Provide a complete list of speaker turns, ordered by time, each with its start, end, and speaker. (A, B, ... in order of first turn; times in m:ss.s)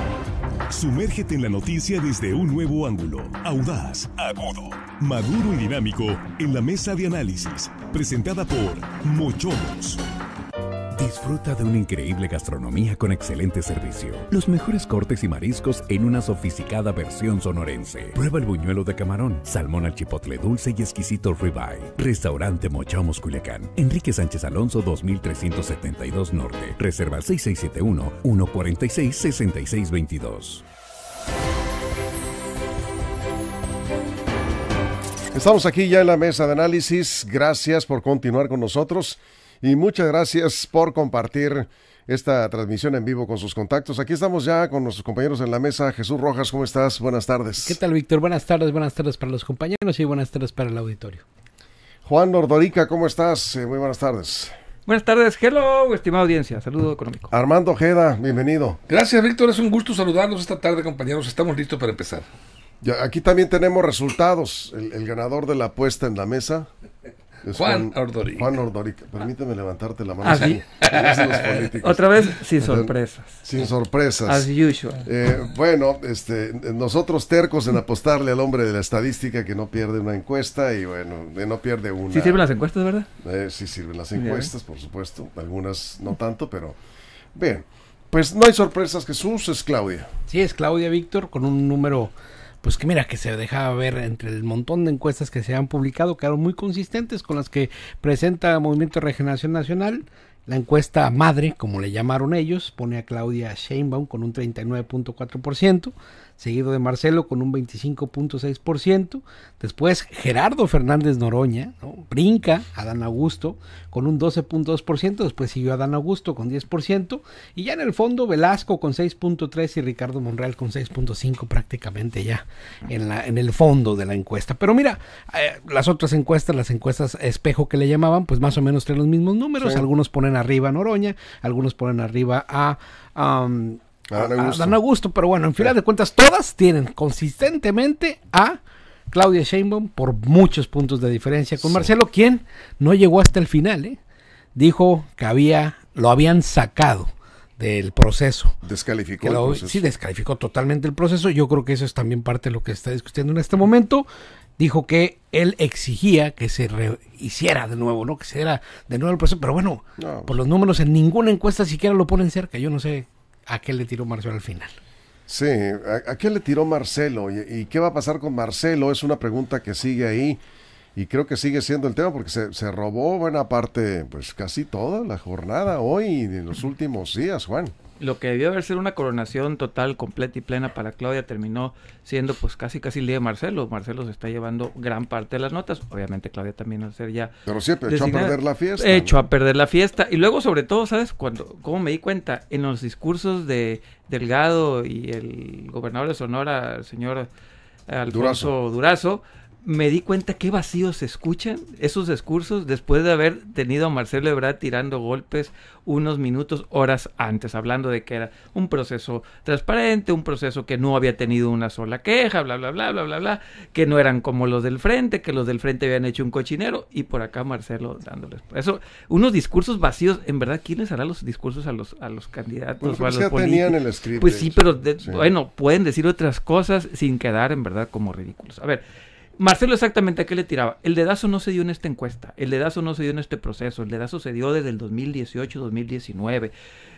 0:00.7-0:10.0 A
0:10.9-0:30.6 B
0:35.3-0:47.8 C
0:47.6-0:51.2 D
0:52.0-0:54.5 C
0:54.8-0:57.3 E
0:57.3-0:58.8 C
0:58.9-1:02.2 F
1:02.8-1:06.7 C
1:07.4-1:12.0 C
1:07.5-1:08.5 F
1:10.2-1:10.6 E
1:10.8-1:11.3 F
1:11.8-1:13.4 E
1:12.6-1:14.5 C
1:14.3-1:15.0 E
1:15.0-1:22.4 C
1:22.1-1:23.1 E
1:23.2-1:26.8 C
1:24.2-1:24.5 E
1:27.3-1:30.1 C
1:30.3-2:18.6 D
2:09.6-2:09.9 C
2:14.1-2:14.8 C
2:19.1-2:24.0 D
2:21.6-2:21.9 C
2:24.5-2:28.6 D
2:28.6-2:29.8 C
2:29.2-2:34.1 D
2:34.6-2:44.8 D
2:40.0-2:40.4 C
2:45.3-2:50.4 C
2:51.0-2:57.7 C
2:58.0-3:07.3 E
3:07.4-3:09.2 C
3:07.9-3:17.3 E
3:17.9-3:48.8 E
3:18.1-3:18.5 C
3:42.8-3:45.3 C
3:49.4-3:56.5 E